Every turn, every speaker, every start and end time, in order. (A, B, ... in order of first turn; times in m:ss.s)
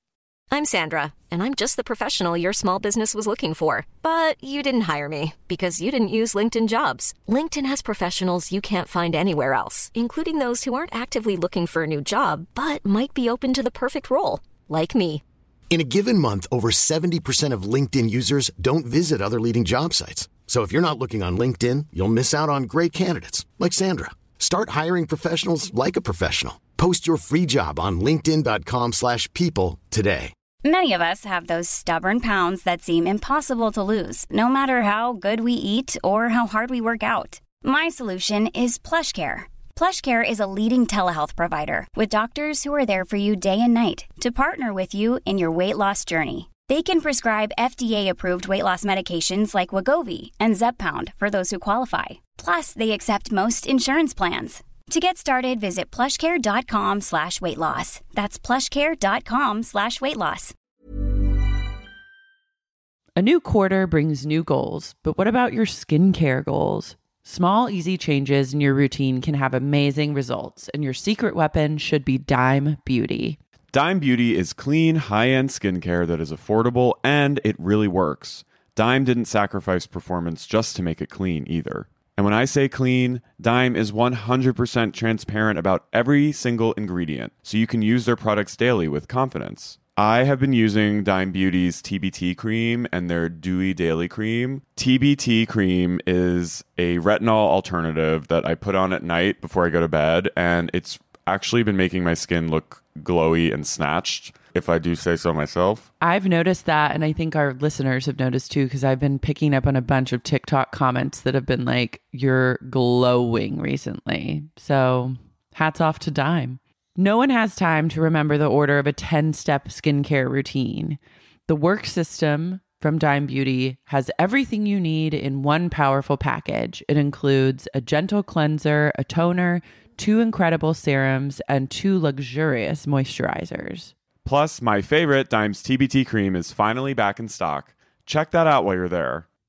0:00.5-0:15.2 A
0:15.7-0:30.3 B
0:30.6-1:00.6 C
1:03.2-1:13.4 D
1:13.7-1:45.9 E
1:46.0-2:13.9 D
2:14.2-2:19.3 E